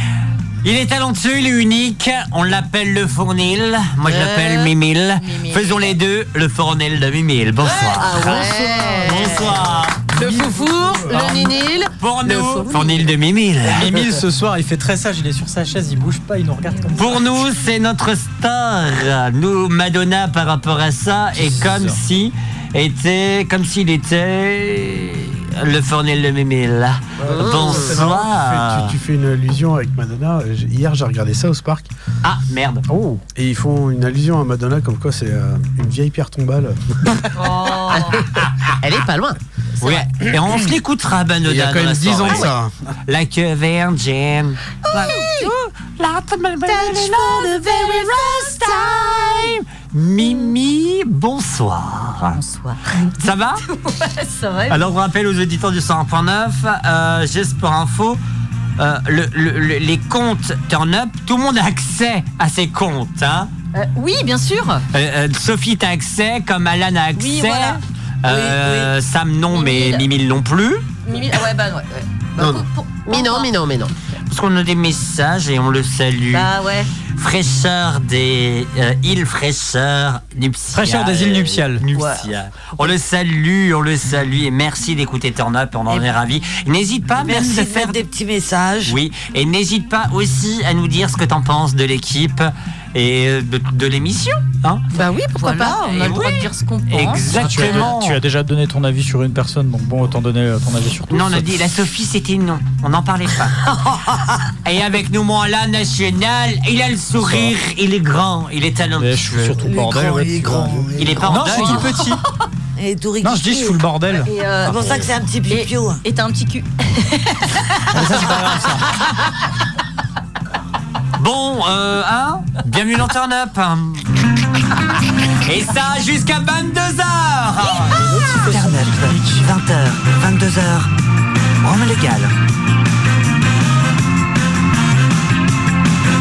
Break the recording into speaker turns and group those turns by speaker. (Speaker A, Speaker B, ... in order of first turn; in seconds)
Speaker A: 0.6-10.0, 12.0-14.1, 16.9-28.9, 32.2-32.9, 39.8-42.5, 43.1-52.4, 53.2-53.6, 54.7-58.2, 58.8-63.5, 64.9-70.9, 74.3-76.5, 77.1-88.0, 88.8-94.8, 95.9-98.2, 101.1-103.6, 104.6-109.7, 111.0-111.9, 121.2-124.1, 125.4-130.9, 131.6-132.3
Speaker B: 4.0-4.7, 7.7-13.1, 27.3-28.0, 38.8-39.4, 73.1-73.9, 95.0-95.7
Speaker C: 5.2-5.9, 37.4-38.2, 47.7-48.7, 52.4-52.8, 53.6-54.9, 63.7-64.8, 67.2-67.8, 68.3-68.9, 69.5-70.1, 71.1-73.5, 76.3-76.9, 82.0-82.2, 95.3-97.9, 114.2-118.0
Speaker D: 10.1-11.4, 27.2-31.9, 32.9-36.8, 41.5-42.7, 72.4-72.6
Speaker E: 13.6-17.4, 21.4-22.0, 80.7-81.8, 97.3-101.7, 107.2-107.5, 109.0-112.2, 113.2-114.3, 117.9-118.9, 127.7-129.5
Speaker F: 87.2-89.0, 103.7-104.4, 109.6-111.6, 112.8-113.8, 114.6-116.0